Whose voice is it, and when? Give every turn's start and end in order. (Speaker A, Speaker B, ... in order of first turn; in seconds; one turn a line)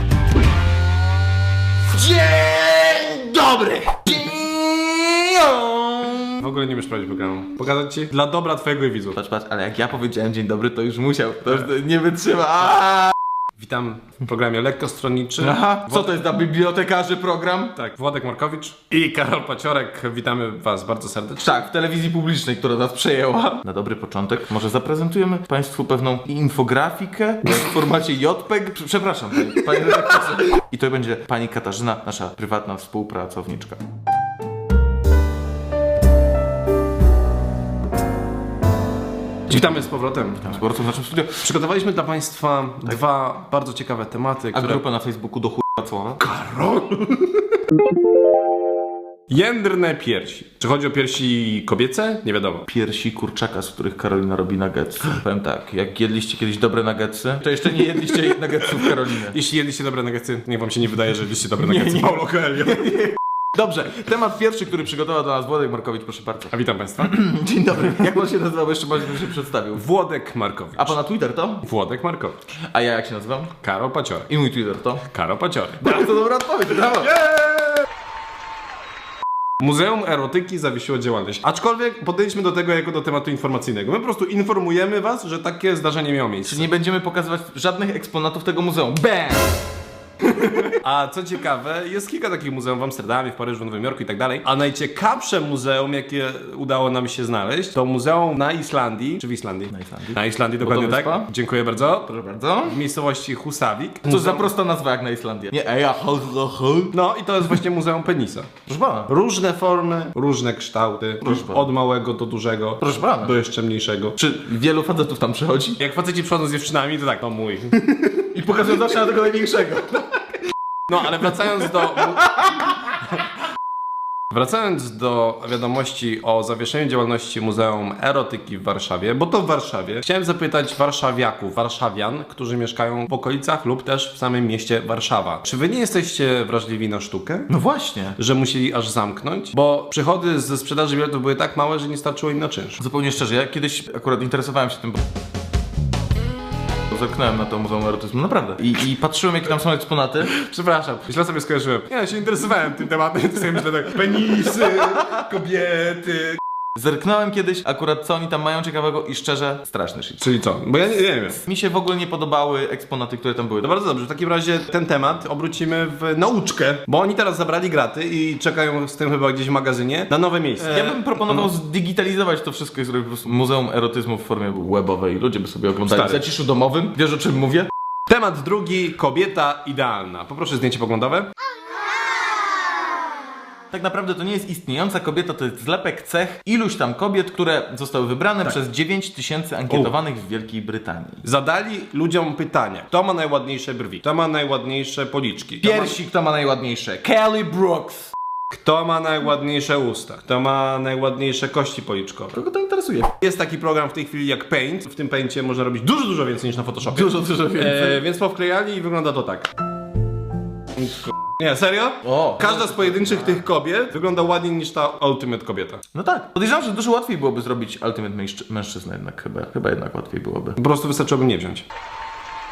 Speaker A: 1.9-6.4
Speaker B: 6.4-9.2
Speaker A: 9.2-13.2
Speaker B: 13.6-16.2
Speaker A: 15.4-17.7
Speaker B: 17.8-21.6
Speaker A: 21.4-33.8
Speaker B: 39.5-40.5
Speaker A: 39.5-39.8
Speaker A: 40.4-41.5
Speaker B: 41.4-44.8
Speaker A: 44.5-46.2
Speaker B: 46.2-47.5
Speaker B: 49.3-52.7
Speaker A: 52.7-59.4
Speaker B: 58.7-62.9
Speaker A: 61.6-69.9
Speaker B: 66.5-67.2
Speaker B: 69.8-71.0
Speaker A: 70.8-71.7
Speaker B: 71.6-72.4
Speaker A: 72.5-73.5
Speaker B: 73.6-74.3
Speaker A: 74.3-75.0
Speaker B: 75.1-76.1
Speaker A: 75.8-77.1
Speaker B: 77.0-77.8
Speaker B: 79.6-86.7
Speaker A: 86.4-89.5
Speaker A: 90.3-90.7
Speaker B: 90.8-104.5
Speaker A: 99.7-101.3
Speaker A: 102.1-102.8
Speaker A: 104.1-107.0
Speaker B: 106.9-108.5
Speaker A: 108.7-109.1
Speaker B: 109.1-114.2
Speaker A: 111.2-111.7
Speaker A: 112.8-113.4
Speaker A: 114.2-115.8
Speaker B: 115.8-118.0
Speaker A: 118.2-120.4
Speaker B: 120.9-122.2
Speaker A: 121.0-123.0
Speaker B: 124.3-137.5
Speaker A: 137.5-138.2
Speaker B: 138.2-142.8
Speaker A: 142.8-145.0
Speaker A: 146.9-150.3
Speaker B: 150.2-156.4
Speaker A: 154.6-155.2
Speaker A: 156.8-160.3
Speaker B: 160.2-161.4
Speaker A: 161.3-163.8
Speaker B: 163.6-171.5
Speaker A: 170.6-177.7
Speaker B: 175.8-176.2
Speaker B: 178.1-181.3
Speaker A: 183.7-191.2
Speaker B: 191.2-196.0
Speaker A: 195.6-198.1
Speaker B: 198.5-202.3
Speaker A: 202.3-203.1
Speaker B: 203.2-209.5
Speaker A: 206.9-208.0
Speaker B: 210.8-215.8
Speaker A: 212.0-213.4
Speaker A: 215.9-220.6
Speaker B: 220.6-221.6